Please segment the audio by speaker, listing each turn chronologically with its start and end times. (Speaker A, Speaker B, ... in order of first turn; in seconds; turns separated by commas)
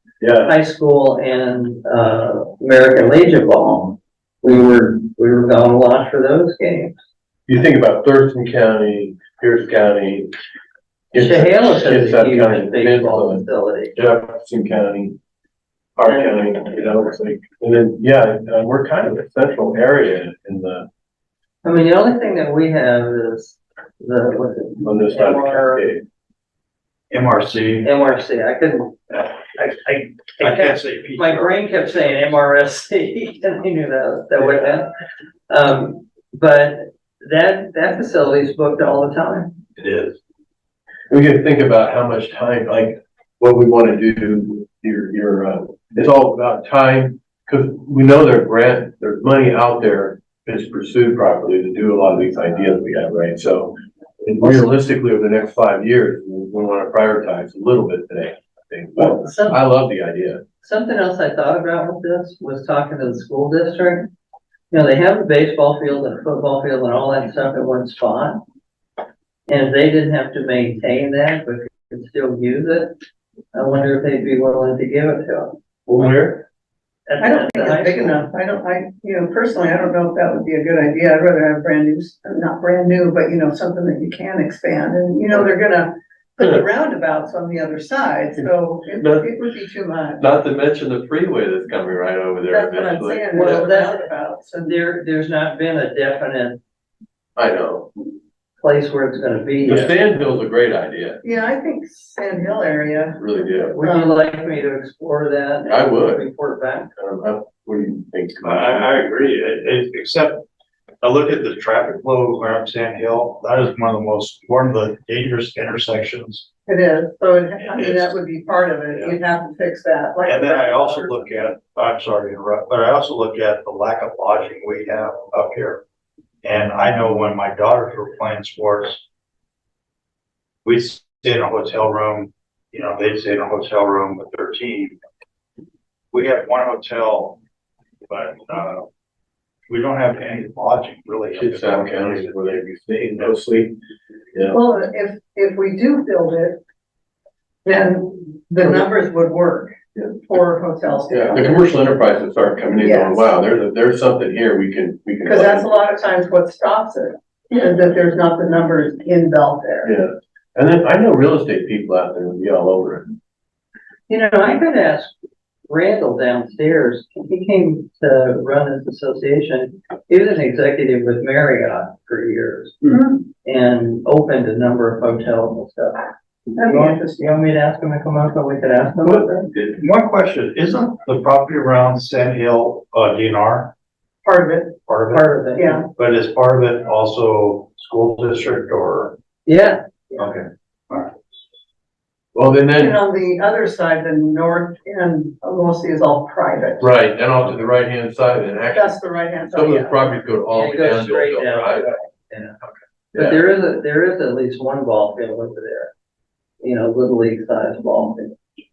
Speaker A: 0.2-0.6, Speaker B: 0.4-7.0, Speaker A: 7.5-10.3, Speaker A: 11.1-15.2, Speaker B: 11.1-13.9, Speaker A: 16.0-20.9, Speaker B: 16.1-16.4, Speaker B: 21.6-25.9, Speaker A: 24.8-26.0, Speaker C: 27.1-27.9, Speaker B: 27.8-34.9, Speaker C: 30.4-32.3, Speaker B: 35.5-39.5, Speaker C: 39.8-40.2, Speaker A: 41.1-60.4, Speaker B: 59.0-59.6, Speaker B: 60.6-64.1, Speaker B: 64.7-68.4, Speaker B: 69.5-72.9, Speaker B: 73.5-75.6, Speaker A: 75.9-76.5, Speaker B: 77.1-78.2, Speaker D: 77.2-90.2, Speaker A: 89.0-89.3, Speaker A: 90.2-93.7, Speaker D: 92.5-94.8, Speaker B: 93.3-94.0, Speaker B: 94.6-96.6, Speaker A: 97.4-97.9, Speaker B: 98.6-99.9, Speaker A: 99.7-101.2, Speaker D: 101.2-103.2, Speaker A: 103.2-103.8, Speaker B: 103.7-106.9, Speaker D: 103.8-104.2, Speaker A: 105.7-106.3, Speaker A: 107.0-108.9, Speaker C: 108.4-110.4, Speaker C: 111.0-116.5, Speaker D: 116.7-121.2, Speaker C: 117.6-118.2, Speaker C: 120.3-125.8, Speaker C: 126.4-129.1, Speaker C: 130.6-135.0, Speaker C: 136.1-137.4, Speaker C: 138.1-138.9, Speaker C: 139.7-142.6, Speaker A: 141.4-143.8, Speaker D: 144.5-146.6, Speaker D: 147.7-151.8, Speaker A: 151.1-155.7, Speaker D: 152.8-153.3, Speaker D: 155.2-159.9, Speaker A: 159.8-163.2, Speaker B: 164.1-165.1, Speaker B: 165.7-176.1, Speaker D: 176.6-177.2, Speaker B: 176.6-179.5, Speaker C: 179.7-183.7, Speaker D: 184.2-184.8, Speaker C: 184.9-185.3, Speaker B: 185.1-185.8, Speaker D: 185.6-185.9, Speaker C: 185.8-189.2, Speaker B: 189.5-190.2, Speaker C: 190.2-191.1, Speaker A: 192.3-193.0, Speaker D: 192.8-196.9, Speaker A: 196.8-199.0, Speaker D: 198.7-199.9, Speaker A: 199.5-202.0, Speaker B: 200.5-202.6, Speaker A: 203.1-203.4, Speaker B: 203.1-205.9, Speaker B: 206.6-208.3